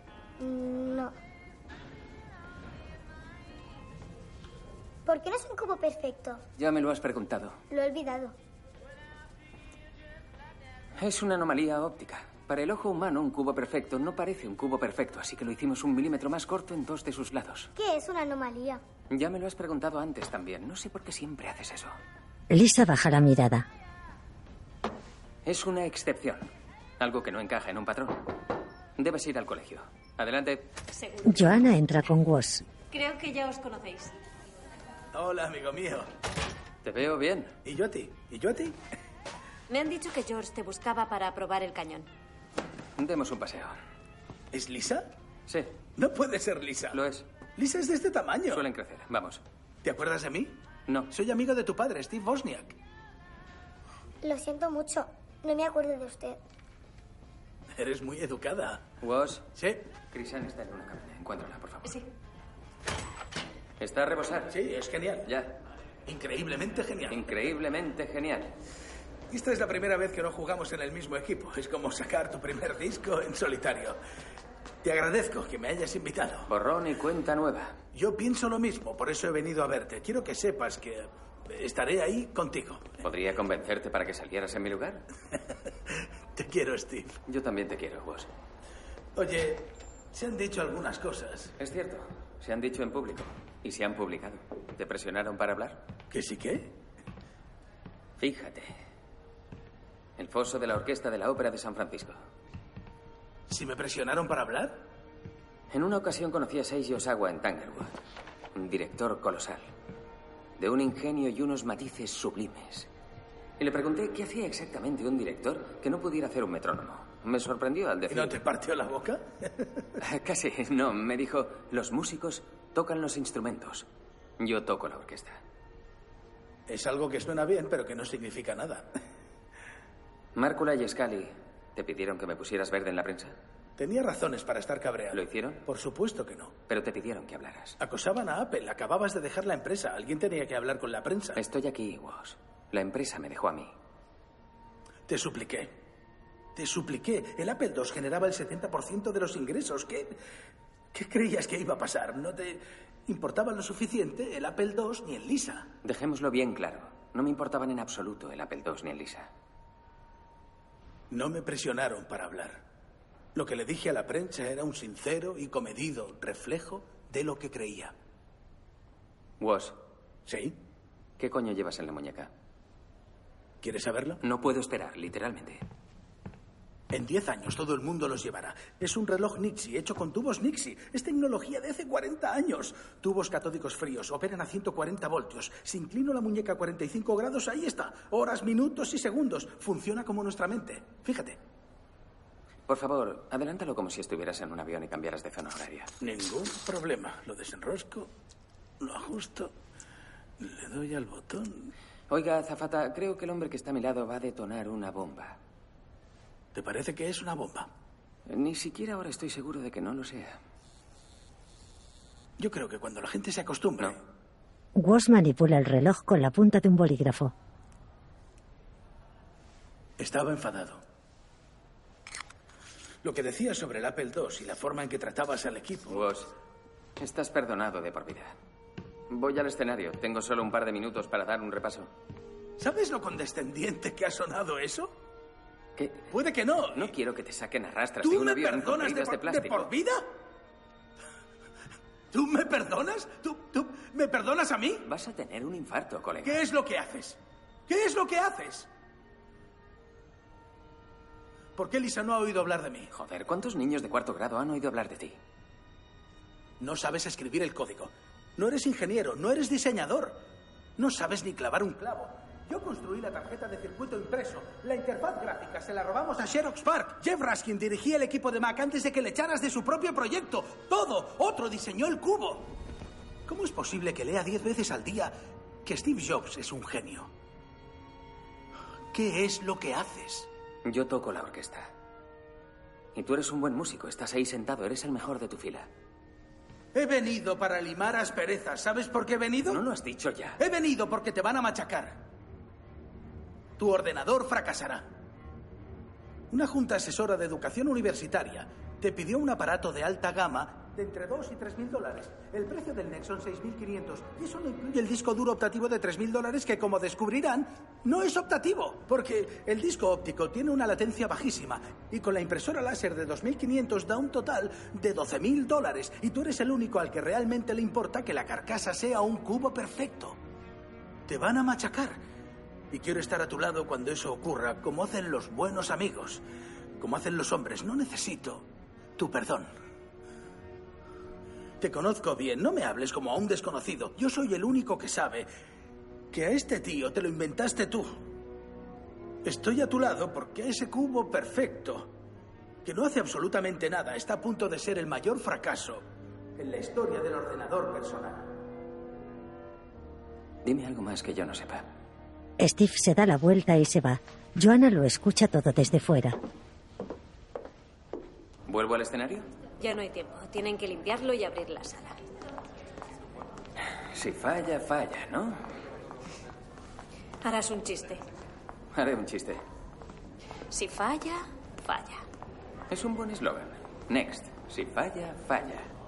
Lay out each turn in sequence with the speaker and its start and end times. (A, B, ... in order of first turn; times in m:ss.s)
0:00.4-0:01.1 A
0:05.1-0:06.4 A
0:06.6-0:07.6 B
0:07.7-0:08.4 A
0:11.0-0:17.7 B
0:17.8-0:18.8 A
0:19.1-0:22.0 B
0:22.5-0:23.7 C
0:25.4-0:26.5 B
0:27.0-0:28.2 B
0:29.0-0:30.7 B
0:30.9-0:31.6 D
0:31.2-0:32.6 C
0:32.9-0:34.1 D
0:35.1-0:36.1 E
0:36.8-0:37.5 B
0:37.6-0:38.8 E
0:39.7-0:42.1 D
0:43.0-0:43.8 B
0:44.5-0:45.1 E
0:46.0-0:47.0 E
0:46.9-0:47.2 B
0:47.6-0:48.6 E
0:48.5-0:49.4 B
0:49.8-0:50.6 E
0:51.1-0:52.8 E
0:54.2-0:56.4 A
0:57.8-0:58.8 E
0:59.0-0:59.5 B
0:59.6-0:59.8 E
1:00.1-1:01.9 B
1:03.8-1:04.6 B
1:04.5-1:05.3 E
1:05.2-1:05.6 B
1:06.1-1:07.2 E
1:07.1-1:08.5 B
1:09.3-1:14.0 E
1:14.8-1:16.5 E
1:16.5-1:17.8 B
1:17.9-1:22.9 E
1:23.0-1:25.0 B
1:26.4-1:27.1 E
1:27.3-1:28.3 B
1:29.2-1:31.5 E
1:31.6-1:35.8 B
1:36.1-1:36.7 E
1:38.2-1:38.7 B
1:40.2-1:42.2 B
1:43.5-1:44.8 E
1:45.7-1:47.9 B
1:48.6-1:49.7 B
1:50.6-1:52.9 B
1:53.6-1:58.4 B
1:58.1-1:59.7 E
2:00.0-2:03.9 B
2:04.4-2:05.4 B
2:06.7-2:08.9 E
2:10.4-2:13.4 B
2:13.8-2:16.6 E
2:15.1-2:15.6 B
2:16.7-2:17.8 B
2:17.8-2:21.4 E
2:21.4-2:23.7 B
2:25.1-2:25.7 E
2:26.6-2:30.2 E
2:30.9-2:35.7 E
2:35.8-2:39.3 B
2:41.1-2:42.6 E
2:43.4-2:47.9 E
2:49.4-2:49.8 B
2:50.3-2:50.6 E
2:51.2-2:52.3 B
2:53.6-2:54.2 E
2:54.2-2:55.6 B
2:56.9-3:11.4 E
3:12.7-3:15.9 B
3:16.0-3:18.1 E
3:18.8-3:19.5 E
3:20.4-3:21.7 E
3:22.1-3:25.4 B
3:26.5-3:27.7 E
3:28.3-3:30.4 B
3:32.4-3:34.0 E
3:34.8-3:37.3 C
3:40.0-3:40.8 E
3:43.0-3:46.1 E
3:45.9-3:46.3 B
3:47.0-3:48.4 B
3:49.1-3:51.9 B
3:52.6-3:54.9 E
3:55.8-3:56.0 B
3:56.1-3:56.9 E
3:56.8-3:59.7 B
3:58.0-4:00.0 E
4:02.1-4:04.9 E
4:04.8-4:06.4 B
4:06.2-4:08.7 E
4:11.6-4:12.9 E
4:12.9-4:15.2 B
4:16.6-4:20.2 E
4:20.8-4:32.5 E
4:33.3-4:37.1 E
4:38.9-4:40.3 E
4:40.6-4:41.7 B
4:43.0-4:45.7 B
4:46.7-4:49.6 E
4:49.5-4:50.4 B
4:50.4-4:52.0 E
4:53.6-4:54.9 E
4:56.3-5:20.2 E
5:21.1-5:22.0 E
5:22.7-5:26.2 E
5:26.8-5:28.4 E
5:29.0-5:29.5 E
5:31.6-5:35.3 E
5:36.1-5:38.0 E
5:39.2-5:41.9 E
5:42.6-5:45.8 E
5:46.4-5:48.3 E
5:50.4-5:51.7 B
5:52.4-5:56.2 C
5:58.5-5:59.3 B
5:59.6-6:02.0 D
6:03.9-6:05.4 B
6:07.2-6:08.0 D
6:08.7-6:09.4 B
6:10.5-6:12.0 D
6:12.7-6:15.7 B